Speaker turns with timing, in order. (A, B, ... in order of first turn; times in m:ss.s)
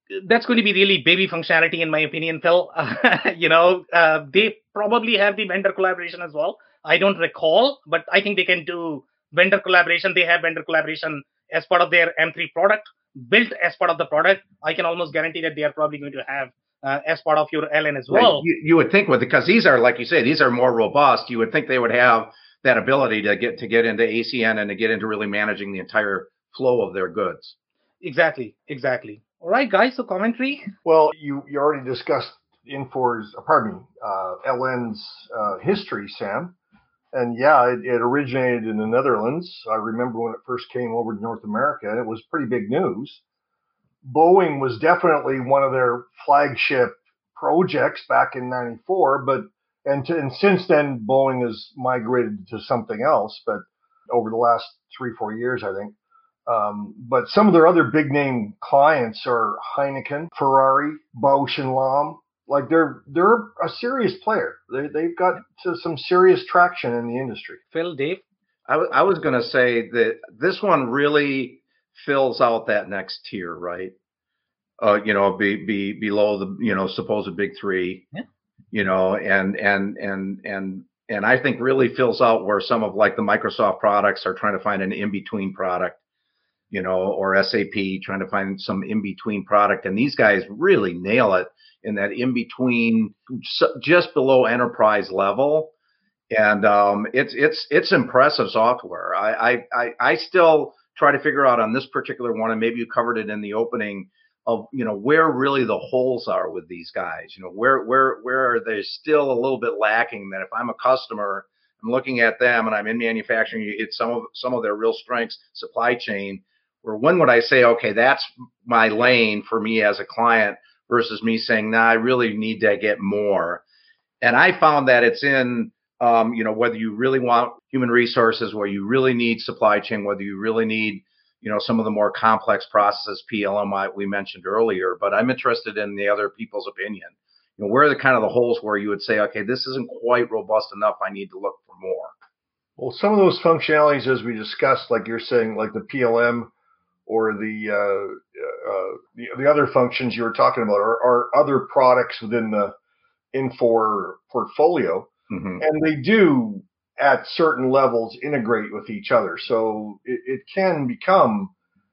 0:00.1-0:18.4 A
0:18.1-0:27.6 B
0:28.0-0:30.7 A
0:30.8-0:36.6 C
0:37.1-0:43.2 C
0:44.0-0:56.0 C
0:56.5-1:07.6 C
1:07.7-1:08.2 A
1:08.7-1:13.9 B
1:14.8-1:18.0 B
1:18.7-1:26.0 B
1:26.7-1:35.7 B
1:36.3-2:03.6 B
2:04.2-2:22.1 B
2:22.8-2:26.5 C
2:27.1-2:32.7 C
2:33.3-2:41.5 C
2:35.3-2:35.6 B